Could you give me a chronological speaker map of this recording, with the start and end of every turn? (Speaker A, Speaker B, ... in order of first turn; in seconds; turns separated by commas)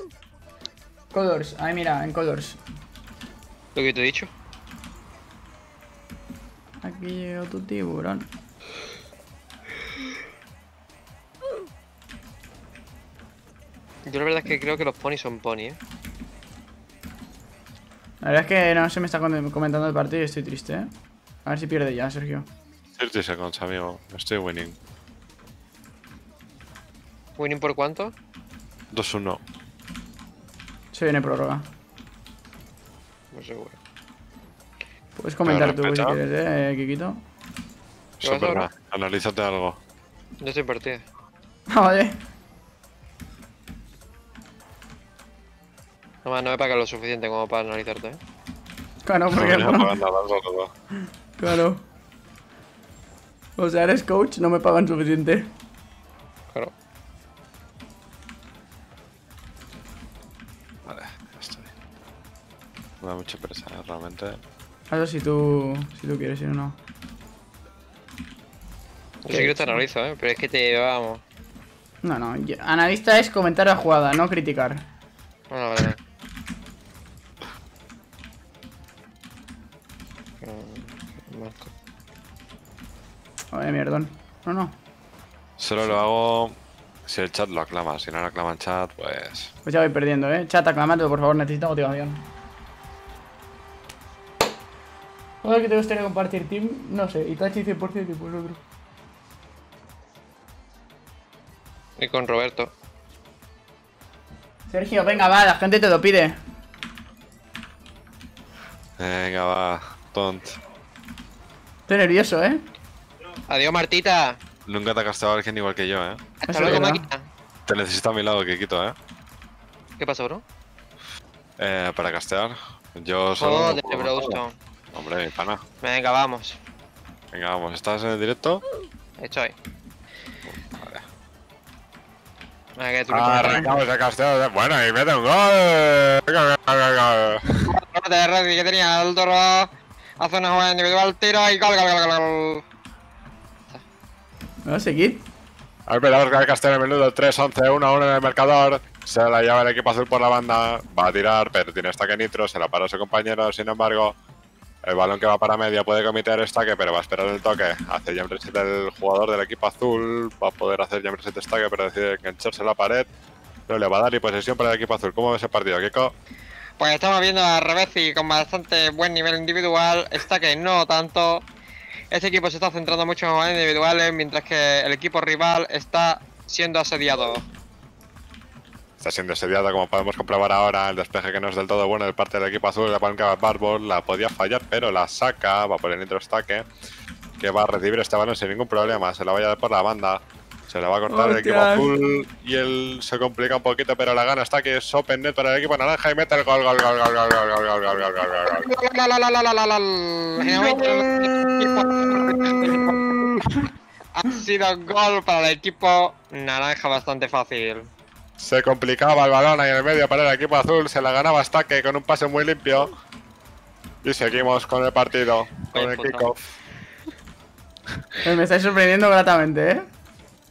Speaker A: 1.1-2.6, Speaker B: 3.8-4.3, Speaker A: 6.8-8.3, Speaker B: 14.1-15.8, Speaker A: 18.2-20.9, Speaker A: 21.4-22.5, Speaker C: 23.0-24.8, Speaker B: 27.4-28.1, Speaker C: 28.9-29.4, Speaker A: 30.9-31.7, Speaker B: 33.3-33.8, Speaker A: 35.2-37.2, Speaker C: 35.5-36.2, Speaker C: 38.2-39.8, Speaker B: 38.2-38.7, Speaker B: 40.4-41.0, Speaker A: 41.7-42.2, Speaker B: 46.2-48.2, Speaker A: 49.0-49.9, Speaker C: 49.3-50.7, Speaker A: 51.4-51.8, Speaker A: 53.6-55.5, Speaker C: 60.9-61.7, Speaker C: 63.0-64.4, Speaker A: 64.9-66.8, Speaker B: 69.2-71.2, Speaker A: 69.3-69.8, Speaker A: 72.0-74.8, Speaker B: 75.5-76.0, Speaker B: 80.4-81.7, Speaker A: 83.5-84.8, Speaker C: 85.6-89.5, Speaker A: 89.7-92.2, Speaker A: 95.4-98.6, Speaker B: 102.0-102.7, Speaker A: 104.7-106.3, Speaker C: 109.0-110.6, Speaker A: 111.9-112.6, Speaker B: 113.5-114.4, Speaker C: 114.7-116.2, Speaker B: 116.4-117.3, Speaker A: 116.5-117.0, Speaker C: 117.7-119.0, Speaker B: 120.0-120.4, Speaker C: 121.6-124.4, Speaker B: 123.3-124.6, Speaker C: 124.9-125.6, Speaker B: 125.8-126.6, Speaker C: 127.3-128.6, Speaker B: 129.2-129.5, Speaker C: 130.5-131.0, Speaker B: 132.8-133.8, Speaker C: 133.1-137.7, Speaker B: 137.7-142.6, Speaker A: 144.7-145.2, Speaker C: 145.9-154.2, Speaker C: 154.8-163.1, Speaker C: 163.7-166.1, Speaker B: 166.8-171.5, Speaker B: 172.1-177.4, Speaker C: 179.0-186.7, Speaker C: 187.4-198.7, Speaker A: 191.1-191.9, Speaker B: 198.4-203.4, Speaker C: 200.4-203.4, Speaker B: 204.2-207.9, Speaker C: 208.4-212.9, Speaker C: 214.0-216.4, Speaker B: 215.7-216.3, Speaker A: 218.2-219.9